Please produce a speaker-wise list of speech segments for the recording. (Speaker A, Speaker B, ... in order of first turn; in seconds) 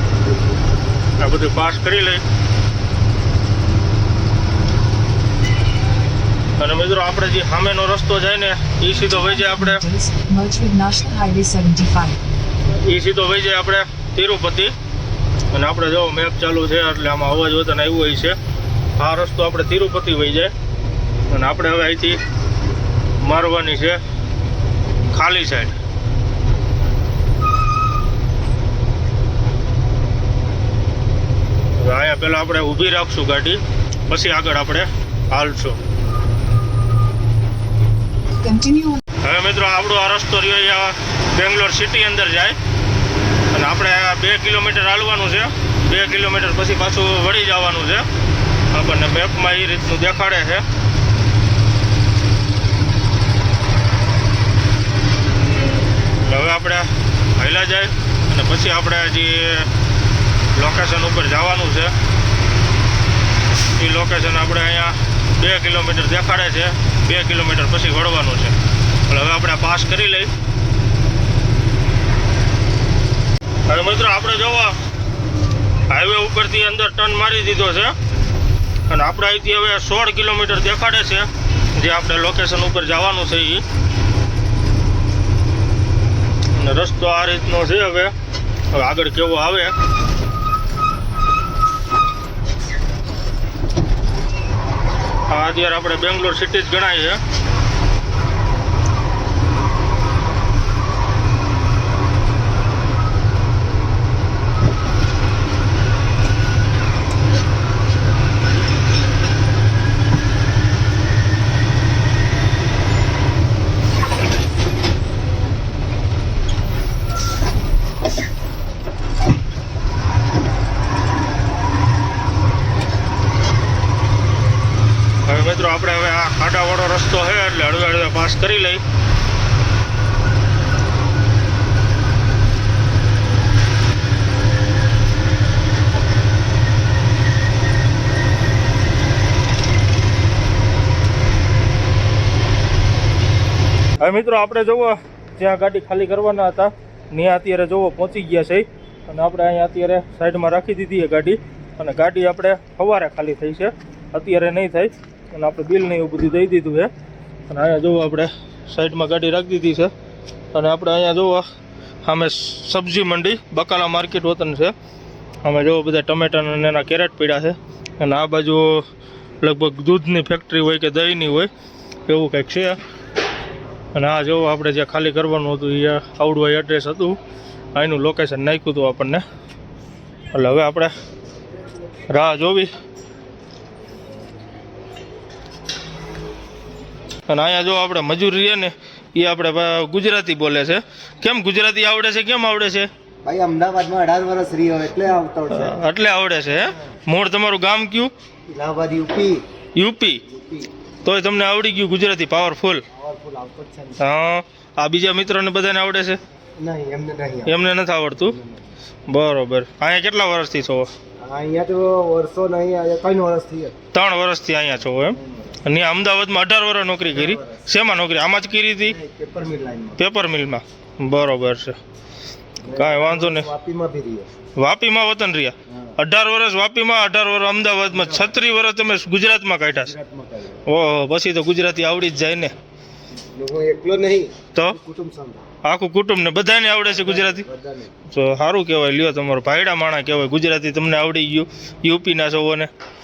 Speaker A: 1.2-2.2, 6.6-9.8, 12.7-14.7, 15.5-18.4, 19.0-20.5, 21.3-22.2, 23.2-24.0, 25.1-25.8, 31.8-35.8, 39.2-42.6, 43.5-48.1, 48.7-50.6, 56.0-59.7, 60.5-61.9, 63.8-68.6, 69.1-70.3, 73.7-74.8, 75.9-78.0, 78.9-83.6, 86.5-88.1, 88.7-89.8, 95.3-97.2, 125.2-128.8, 144.0-156.9, 157.5-159.9, 160.5-161.5, 162.0-164.7, 165.4-168.9, 169.4-171.5, 172.1-172.8, 173.9-177.2, 177.8-179.2, 180.3-180.9, 182.1-182.7, 187.3-192.9, 195.5-198.1, 199.8-200.2, 201.0-202.8, 204.0-206.2, 207.5-208.4, 209.1-210.9, 213.9-219.0, 220.0-221.8, 222.7-223.5, 224.6-229.9, 230.7-232.6, 235.6-237.5, 238.1-242.7
Speaker B: 9.1-12.2, 38.4-39.0
Speaker C: 193.2-195.8, 198.5-199.5, 200.3-200.7, 202.9-204.0, 206.6-207.6, 208.2-208.8, 211.2-213.8, 215.1-215.6, 217.1-217.7, 218.8-220.0, 222.6-224.3, 227.9-228.4, 229.7-230.6, 233.3-235.4, 236.8-237.9